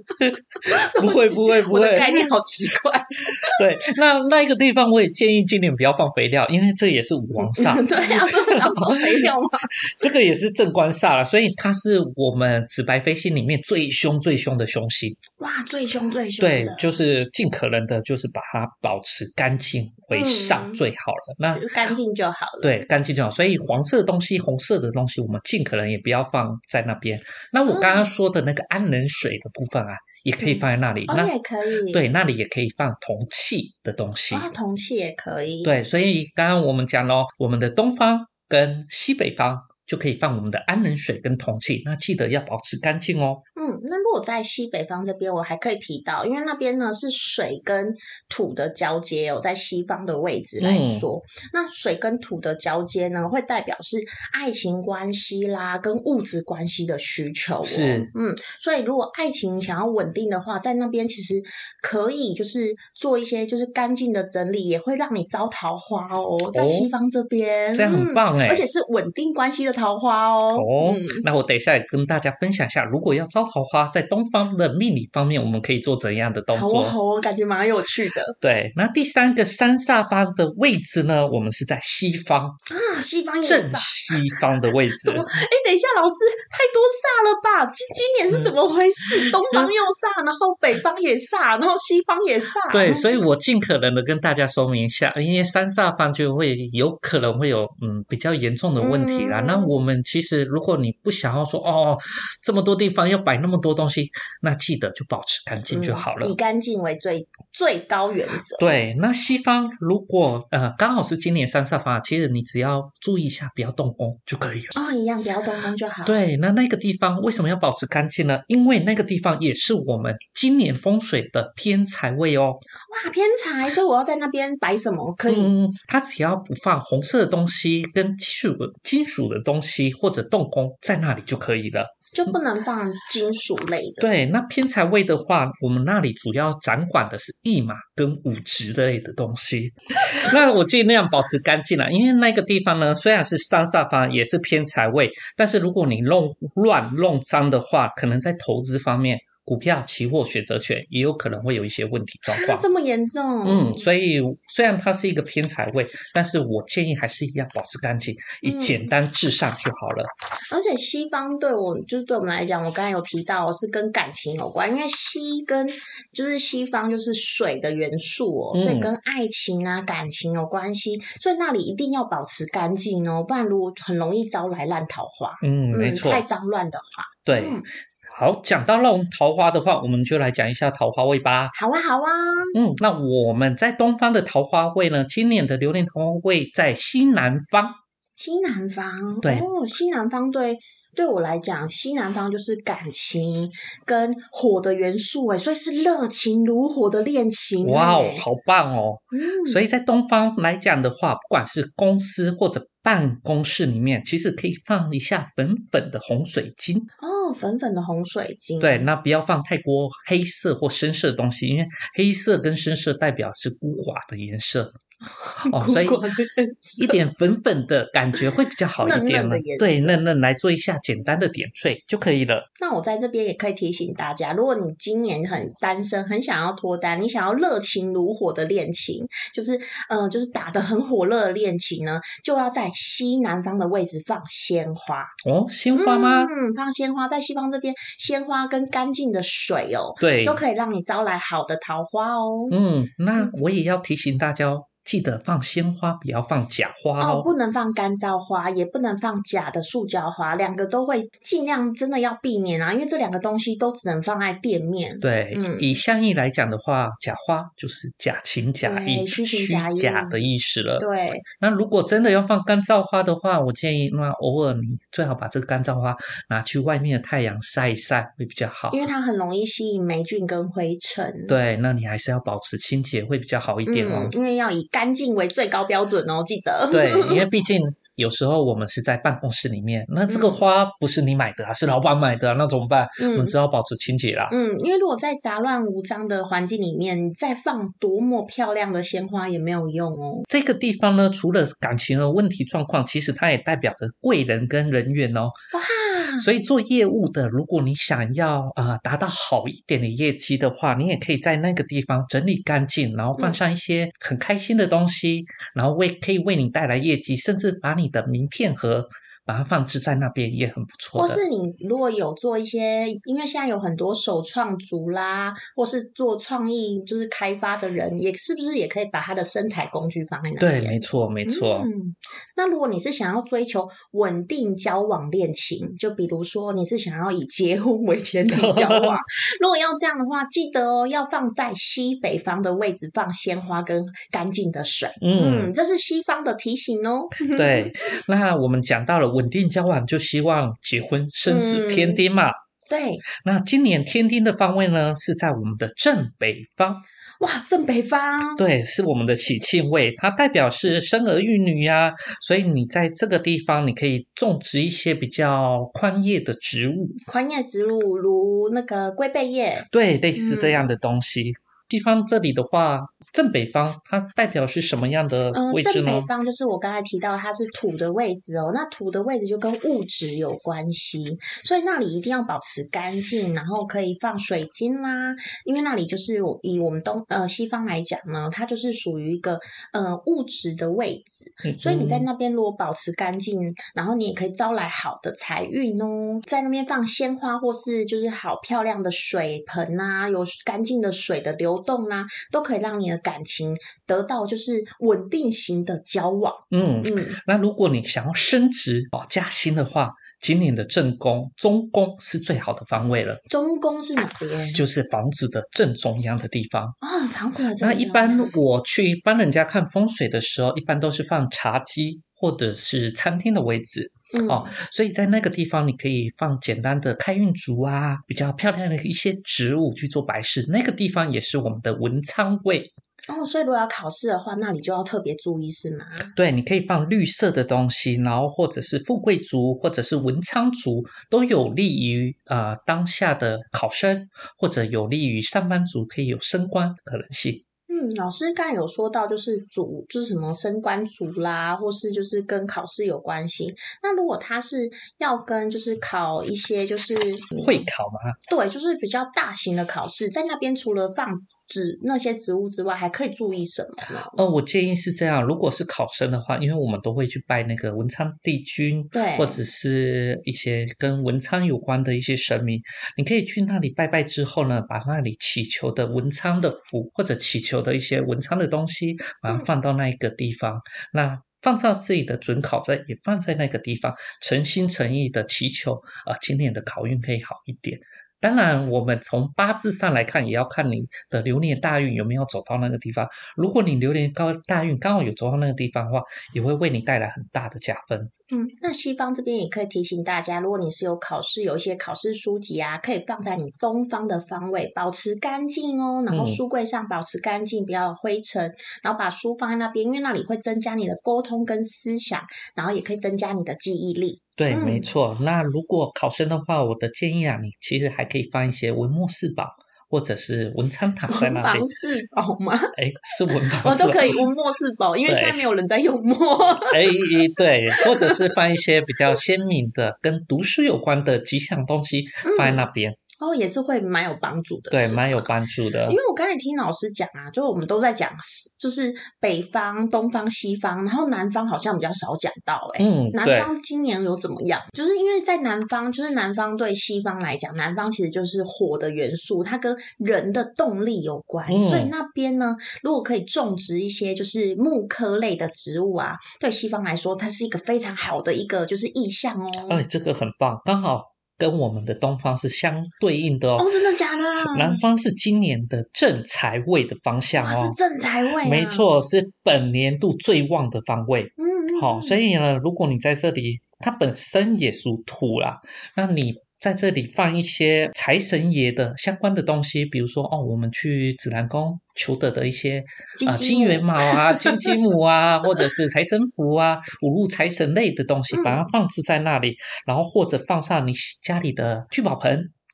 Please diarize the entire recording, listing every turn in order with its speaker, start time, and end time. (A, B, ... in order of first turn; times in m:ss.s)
0:00.2-0:02.3 A
0:00.7-0:03.6 B
0:03.5-0:09.3 A
0:07.4-0:09.9 B
0:09.9-0:15.2 A
0:15.4-0:17.0 B
0:16.4-0:21.7 A
0:20.1-0:20.8 B
0:21.5-0:22.8 B
0:22.6-0:31.3 A
0:27.7-0:28.1 B
0:30.4-0:32.0 B
0:31.9-0:34.5 A
0:34.3-0:35.7 B
0:35.6-0:43.4 A
0:43.6-1:11.3 B
0:50.6-0:51.1 A
0:57.6-0:58.1 A
1:06.5-1:06.9 A
1:07.7-1:08.6 A
1:10.5-1:17.0 A
1:16.5-1:18.4 B
1:18.4-1:22.6 A
1:22.7-1:24.2 B
1:23.4-1:25.3 A
1:25.0-1:33.2 B
1:29.2-1:29.7 A
1:32.7-1:46.4 A
1:38.8-1:39.7 B
1:45.7-1:48.7 B
1:48.6-1:54.8 A
1:54.7-1:56.2 B
1:56.0-2:02.6 A
2:02.9-2:05.5 B
2:05.3-2:12.3 A
2:12.1-2:14.1 B
2:14.0-2:32.6 A
2:32.3-2:33.8 B
2:33.4-2:40.1 A
2:38.4-2:38.9 B
2:40.5-2:57.6 B
2:48.5-2:48.9 A
2:55.4-2:56.2 A
2:57.3-3:01.5 A
3:01.5-3:02.6 B
3:02.5-3:07.8 A
3:08.2-3:18.2 B
3:09.2-3:09.5 A
3:17.6-3:26.9 A
3:19.1-3:19.6 B
3:27.0-3:28.9 B
3:28.6-3:34.7 A
3:35.2-3:37.0 B
3:35.5-3:36.0 A
3:36.8-3:42.5 A
3:38.8-3:40.0 B
3:42.6-3:55.1 B
3:55.2-3:56.3 A
3:55.7-4:02.6 B
4:00.0-4:00.4 A
4:02.5-4:07.3 A
4:07.0-4:15.8 B
4:15.0-4:20.9 A
4:18.6-4:20.2 B
4:20.8-4:21.3 B
4:21.4-4:28.9 A
4:28.7-4:31.4 B
4:31.3-4:34.1 A
4:33.7-4:37.3 B
4:36.7-4:44.3 A
4:40.1-4:40.4 B
4:43.0-4:43.4 B
4:44.3-4:50.3 B
4:50.3-4:55.3 A
4:55.5-4:56.3 B
4:56.2-5:11.2 A
5:11.0-5:37.7 B
5:20.4-5:21.7 A
5:28.3-5:29.0 A
5:35.0-5:35.5 A
5:37.2-5:42.4 A
5:41.2-5:42.0 B
5:42.7-5:43.0 B
5:43.2-5:46.8 A
5:47.2-5:48.4 B
5:48.4-5:57.0 A
5:57.1-6:00.7 B
5:59.7-6:06.1 A
6:05.3-6:37.2 B
6:21.4-6:22.1 A
6:36.5-6:43.2 A
6:43.3-6:44.6 B
6:44.5-6:46.8 A
6:46.8-6:48.3 B
6:47.6-7:02.7 A
6:54.1-6:54.6 B
7:03.1-7:06.1 B
7:06.1-7:17.4 A
7:17.7-7:27.7 B
7:27.4-7:28.2 A
7:28.3-7:34.2 B
7:34.1-8:08.1 A
7:38.9-7:39.4 B
8:08.3-8:24.9 B
8:16.1-8:16.4 A
8:24.4-8:31.7 A
8:31.1-8:32.8 B
8:32.8-8:34.3 A
8:33.3-8:37.2 B
8:35.1-8:35.4 A
8:36.7-8:43.0 A
8:37.7-8:38.4 B
8:42.2-8:42.7 B
8:43.2-8:45.3 B
8:44.7-8:46.0 A
8:45.9-9:09.8 B
8:52.8-8:53.5 A
9:01.5-9:01.9 A
9:09.7-9:13.7 A
9:13.6-9:14.8 B
9:14.4-9:17.8 A
9:17.4-9:18.9 B
9:18.4-9:42.5 A
9:21.4-9:22.2 B
9:33.2-9:34.8 B
9:38.3-9:38.6 B